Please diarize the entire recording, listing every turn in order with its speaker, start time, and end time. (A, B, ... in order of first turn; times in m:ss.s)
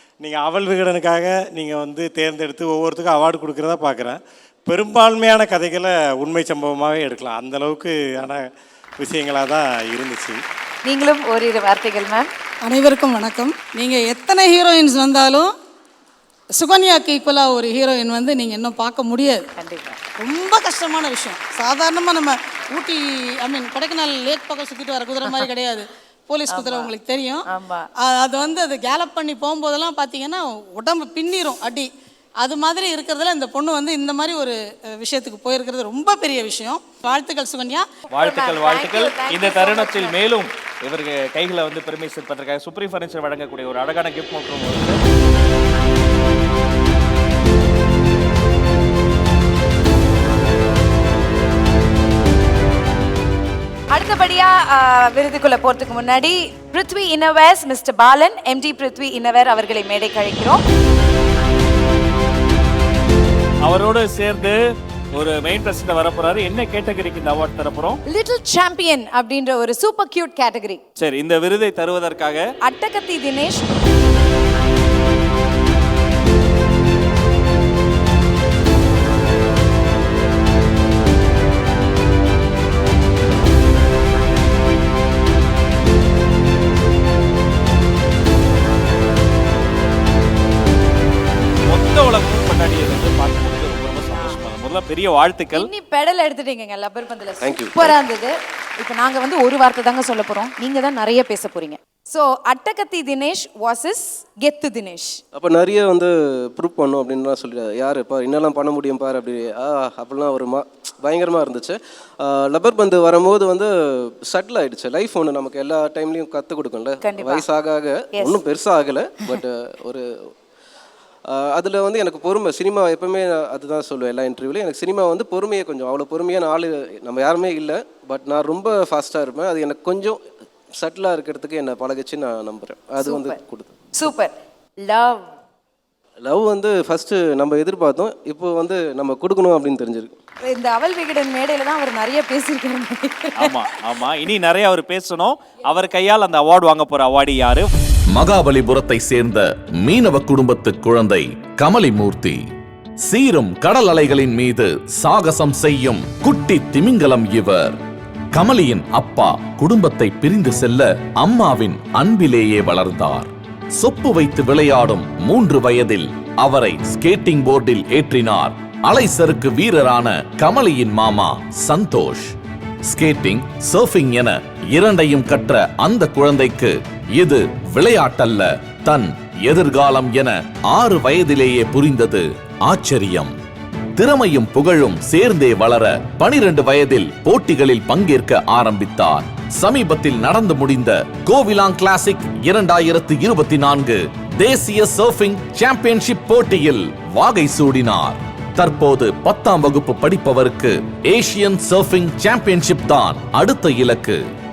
0:00.2-0:08.4 A
0:09.0-0:10.4 A
0:10.8-0:12.3 B
0:12.6-0:15.5 C
0:16.5-0:19.4 C
0:19.6-0:20.0 B
0:20.2-0:31.9 C
0:25.2-0:25.5 B
0:26.5-0:26.9 B
0:27.4-0:27.9 B
0:32.4-0:37.9 C
0:38.1-0:40.2 B
0:38.1-0:45.0 D
0:53.9-1:00.6 B
1:03.6-1:04.6 D
1:05.2-1:08.0 D
1:08.1-1:10.8 B
1:11.0-1:12.4 D
1:12.6-1:13.7 B
1:31.6-1:35.7 D
1:35.5-1:45.2 B
1:37.4-1:37.9 E
1:45.3-2:00.0 E
1:57.0-1:57.4 B
1:58.1-1:58.4 B
2:01.3-2:10.2 E
2:10.8-2:13.7 E
2:13.0-2:13.4 B
2:14.0-2:15.3 B
2:16.2-2:20.1 E
2:20.4-2:23.7 B
2:23.4-2:27.7 D
2:28.1-2:32.4 F
2:33.0-2:37.8 F
2:38.3-3:03.3 F
3:04.0-3:24.2 F